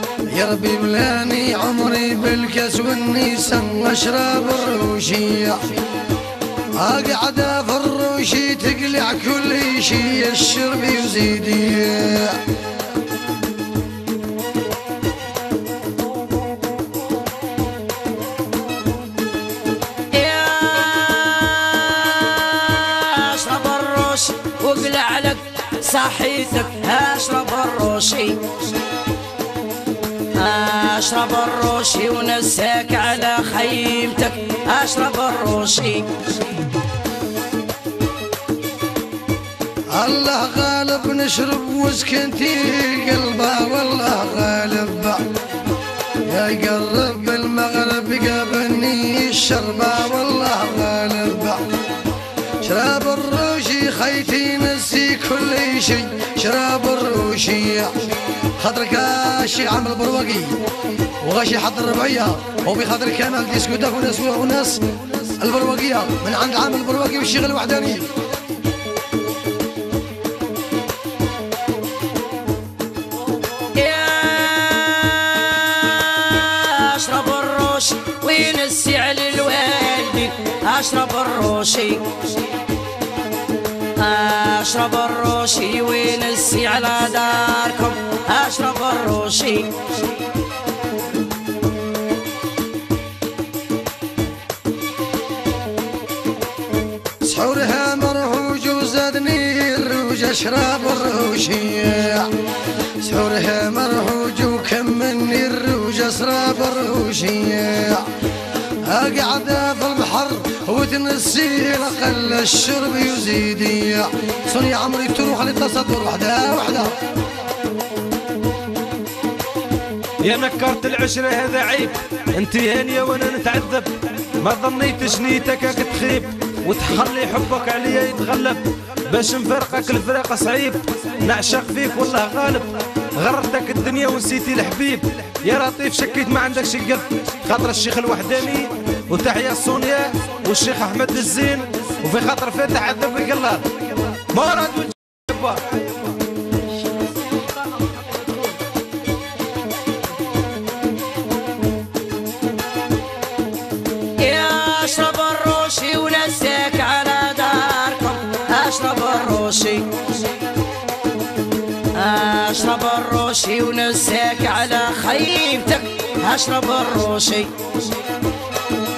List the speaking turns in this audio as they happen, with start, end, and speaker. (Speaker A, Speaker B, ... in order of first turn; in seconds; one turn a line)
Speaker A: 0.2-5.8
Speaker A: 6.7-12.4
Speaker B: 20.1-28.6
Speaker B: 30.3-36.2
Speaker A: 39.9-45.3
Speaker A: 46.2-51.6
Speaker A: 52.6-68.2
Speaker B: 73.7-82.3
Speaker B: 84.0-90.0
Speaker A: 97.2-116.9
Speaker C: 120.2-145.6
Speaker B: 154.2-160.2
Speaker B: 161.9-167.6